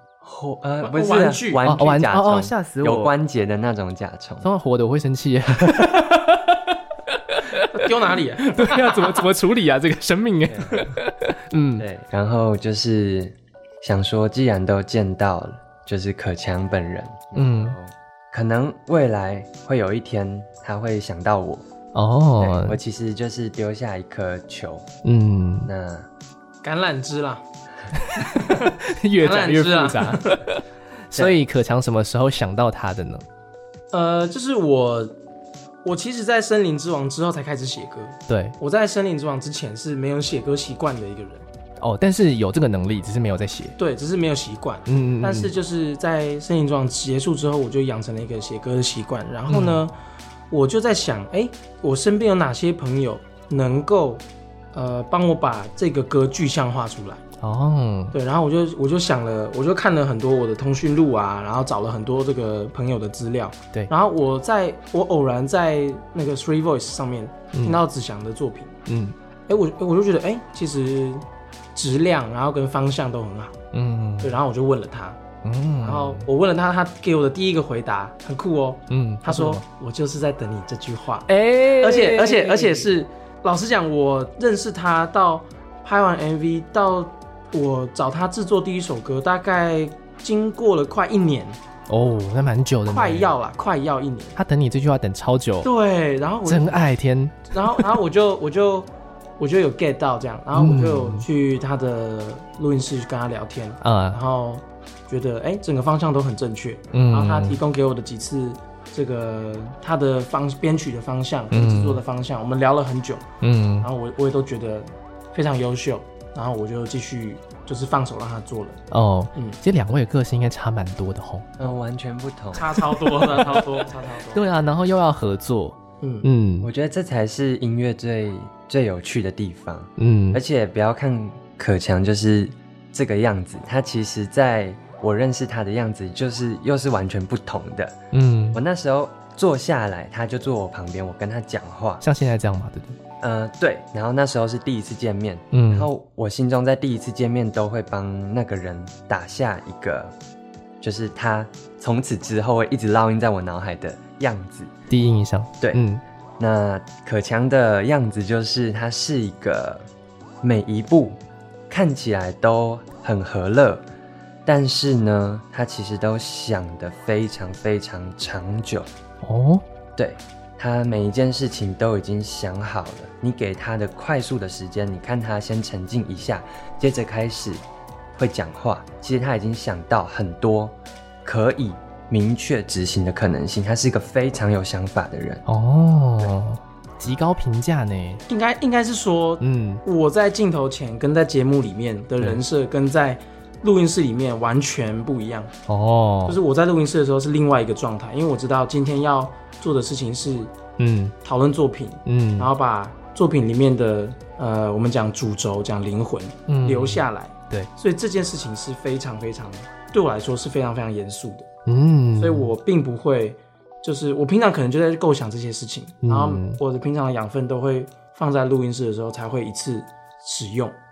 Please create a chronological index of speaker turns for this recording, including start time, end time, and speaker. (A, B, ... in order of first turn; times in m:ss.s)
0:00.2-0:04.5 A
0:00.8-0:01.7 B
0:01.6-0:03.1 C
0:04.4-0:07.7 C
0:07.7-0:09.2 B
0:08.4-0:11.8 C
0:10.5-0:10.8 A
0:11.8-0:21.6 A
0:17.4-0:17.8 C
0:21.9-0:22.8 C
0:22.4-0:24.8 A
0:25.0-0:25.7 C
0:25.7-0:26.1 A
0:26.6-0:27.4 B
0:27.9-0:33.2 C
0:28.3-0:28.7 B
0:29.2-0:30.4 B
0:33.9-0:35.2 B
0:35.8-0:41.4 B
0:38.3-0:38.6 C
0:41.8-0:43.8 C
0:43.8-0:49.9 B
0:44.9-0:45.5 C
0:49.5-0:49.8 C
0:50.5-0:57.2 B
0:57.4-0:58.2 C
0:58.1-1:08.8 B
1:07.5-1:07.8 C
1:08.9-1:09.1 C
1:09.5-1:13.6 B
1:13.7-1:14.4 C
1:14.2-1:15.2 B
1:15.4-1:16.3 C
1:15.8-1:31.6 B
1:18.9-1:19.6 C
1:21.3-1:22.9 C
1:31.9-1:33.3 C
1:32.9-1:34.4 B
1:34.4-1:35.7 C
1:35.6-1:36.8 B
1:36.4-1:37.9 C
1:37.5-1:53.2 B
1:40.5-1:41.3 C
1:43.8-1:44.2 C
1:46.9-1:47.6 C
1:51.5-1:52.0 C
1:53.4-1:53.9 C
1:53.8-1:58.8 B
1:58.9-2:01.5 C
2:01.6-2:02.8 A
2:02.5-2:04.4 B
2:02.9-2:03.8 C
2:04.3-2:06.7 C
2:06.0-2:06.2 B
2:06.6-2:18.0 A
2:10.0-2:10.4 C
2:18.1-2:18.6 C
2:18.5-2:22.0 A
2:22.0-2:23.0 C
2:23.2-2:30.1 A
2:25.5-2:25.9 C
2:30.8-2:34.7 A
2:34.9-2:36.0 C
2:36.4-2:39.8 A
2:40.4-2:43.8 A
2:44.4-2:48.9 A
2:49.2-2:49.6 C
2:50.0-2:57.6 A
2:58.1-3:05.4 A
3:05.4-3:08.2 C
3:08.3-3:15.5 B
3:09.4-3:09.8 C
3:15.7-3:16.4 C
3:16.2-3:20.5 B
3:20.8-3:21.1 C
3:21.2-3:31.5 B
3:22.0-3:22.5 C
3:26.5-3:27.7 C
3:31.6-3:32.5 C
3:32.2-3:40.8 B
3:36.0-3:36.6 C